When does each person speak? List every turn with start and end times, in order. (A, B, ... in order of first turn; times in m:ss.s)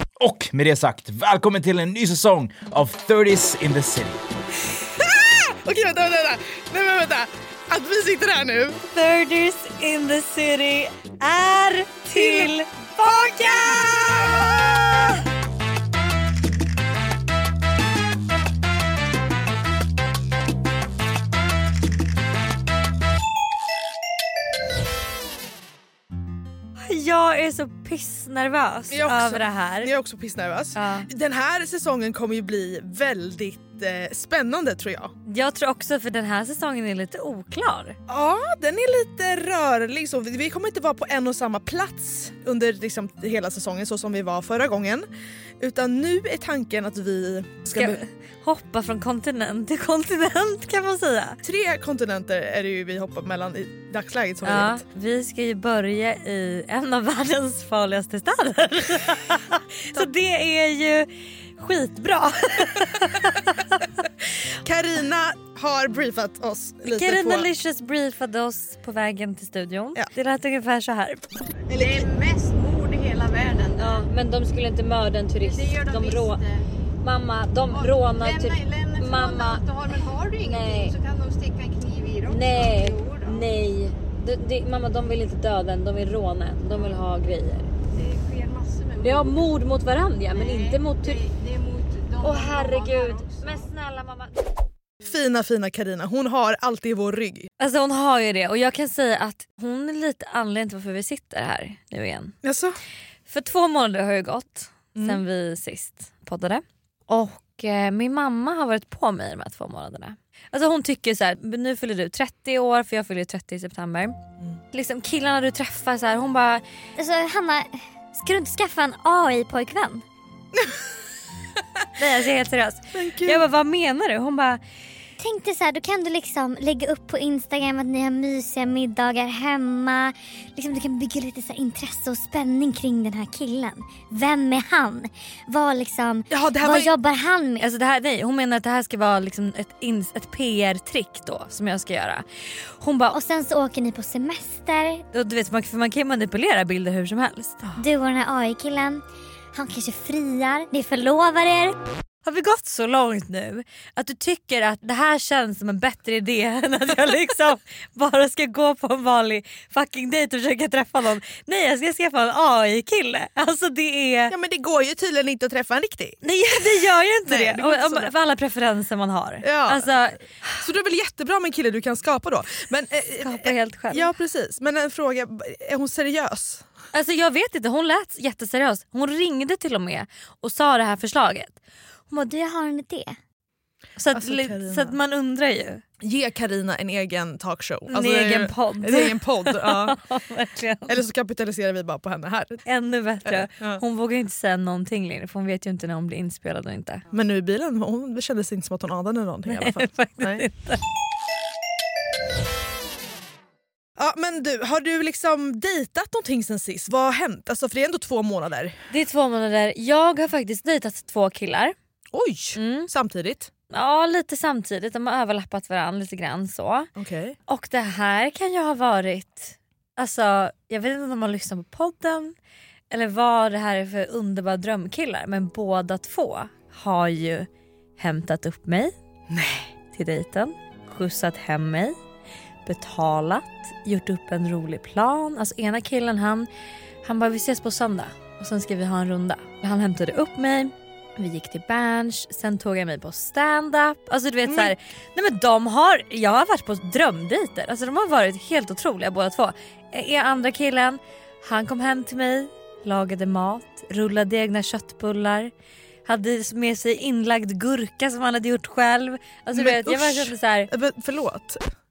0:00.2-0:04.2 A
0:04.9-0:08.8 B
0:08.9-0:14.0 C
0:12.1-0:15.2 B
0:26.8-0:29.9 C
0:28.9-0:35.1 B
0:30.7-0:31.1 C
0:35.3-0:38.0 C
0:38.1-0:45.1 B
0:45.6-0:48.0 B
0:47.7-0:51.4 C
0:51.4-0:54.8 B
0:54.4-1:03.9 C
1:04.6-1:07.5 B
1:06.8-1:11.2 C
1:11.7-1:14.1 D
1:13.8-1:16.4 C
1:15.4-1:16.6 D
1:17.0-1:19.6 C
1:17.7-1:23.4 D
1:20.4-1:20.9 C
1:22.2-1:27.7 C
1:28.0-1:29.5 D
1:29.0-1:31.2 C
1:30.3-1:33.7 D
1:32.2-1:34.4 C
1:35.0-1:37.5 B
1:37.6-1:42.3 C
1:42.4-1:42.8 B
1:43.3-1:54.2 C
1:44.9-1:45.2 B
1:54.7-1:56.6 C
1:57.0-2:00.0 E
2:02.0-2:04.6 C
2:02.9-2:03.4 B
2:05.2-2:17.6 E
2:16.3-2:16.9 B
2:17.6-2:22.2 C
2:22.8-2:23.1 C
2:23.1-2:25.0 E
2:25.1-2:27.6 C
2:27.8-2:29.0 E
2:29.5-2:31.8 E
2:32.2-2:44.3 C
2:44.3-2:48.1 B
2:46.2-2:50.6 C
2:49.4-2:49.9 B
2:50.6-2:56.6 B
2:53.2-2:54.1 C
2:56.9-3:01.6 C
3:02.1-3:03.2 E
3:04.0-3:05.8 C
3:04.1-3:05.0 B
3:06.0-3:10.0 B
3:07.9-3:11.0 C
3:10.9-3:12.6 B
3:12.6-3:17.0 C
3:13.2-3:13.8 B
3:17.1-3:20.4 B
3:19.5-3:20.8 C
3:24.0-3:28.8 B
3:28.9-3:31.7 C
3:32.1-3:33.5 B
3:32.5-3:32.9 C
3:33.7-3:36.9 C
3:37.0-3:37.4 B
3:37.5-3:42.3 C
3:42.9-3:48.9 C
3:49.3-3:49.7 B
3:49.9-3:52.0 C
3:52.6-3:56.5 C
3:57.0-4:15.5 C
4:04.4-4:04.7 B
4:16.0-4:20.7 C
4:19.5-4:21.6 B